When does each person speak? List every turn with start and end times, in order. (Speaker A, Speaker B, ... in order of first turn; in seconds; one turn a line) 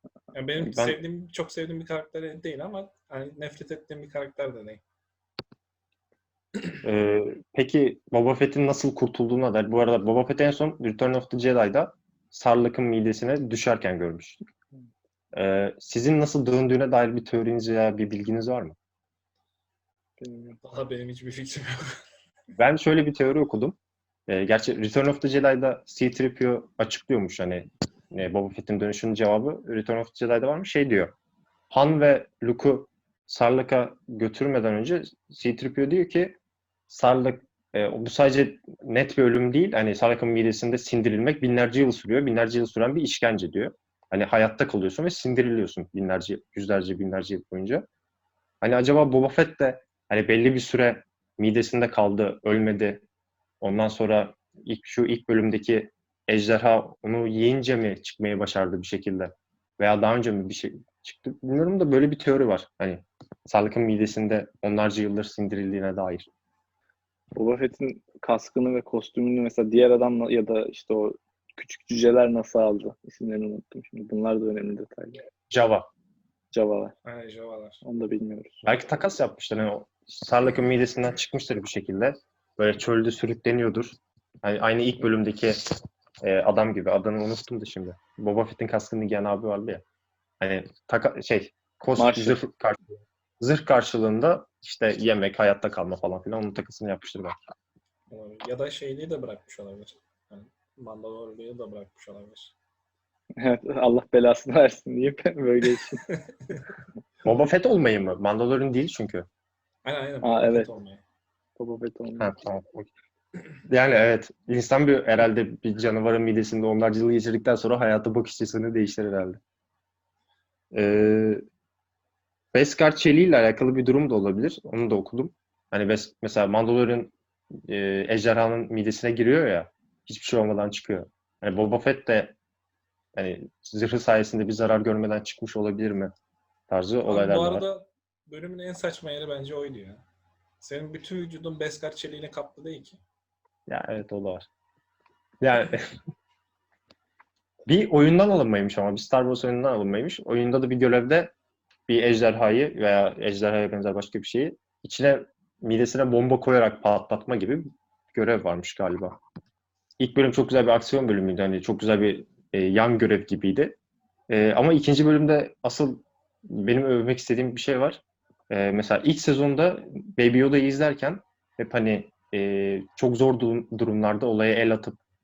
Speaker A: 0.3-4.8
Speaker B: 0.6-1.0
Speaker B: 6.8-14.4
Speaker B: 15.3-18.8
Speaker C: 20.2-20.6
Speaker A: 20.6-21.9
Speaker B: 22.6-23.8
Speaker B: 24.3-31.1
Speaker B: 31.7-47.9
Speaker B: 48.6-53.0
Speaker B: 53.6-66.3
Speaker C: 67.3-75.2
Speaker B: 75.5-75.9
Speaker C: 76.5-76.9
Speaker A: 77.0-77.8
Speaker C: 77.8-78.7
Speaker B: 78.7-85.6
Speaker B: 86.2-89.8
Speaker B: 90.4-92.8
Speaker C: 92.0-92.4
Speaker B: 93.4-97.4
Speaker A: 98.1-102.5
Speaker C: 103.4-106.0
Speaker A: 106.0-106.7
Speaker B: 107.2-109.3
Speaker A: 109.8-111.0
Speaker C: 110.2-110.7
Speaker C: 111.6-112.3
Speaker B: 112.2-112.9
Speaker B: 113.7-119.4
Speaker B: 120.7-121.4
Speaker B: 122.5-127.1
Speaker B: 127.7-132.4
Speaker B: 133.2-136.1
Speaker B: 136.7-137.7
Speaker A: 137.1-140.0
Speaker A: 140.6-143.0
Speaker B: 143.7-144.5
Speaker B: 145.4-145.8
Speaker B: 147.7-151.3
Speaker B: 151.9-159.2
Speaker B: 160.0-163.8
Speaker B: 164.3-175.0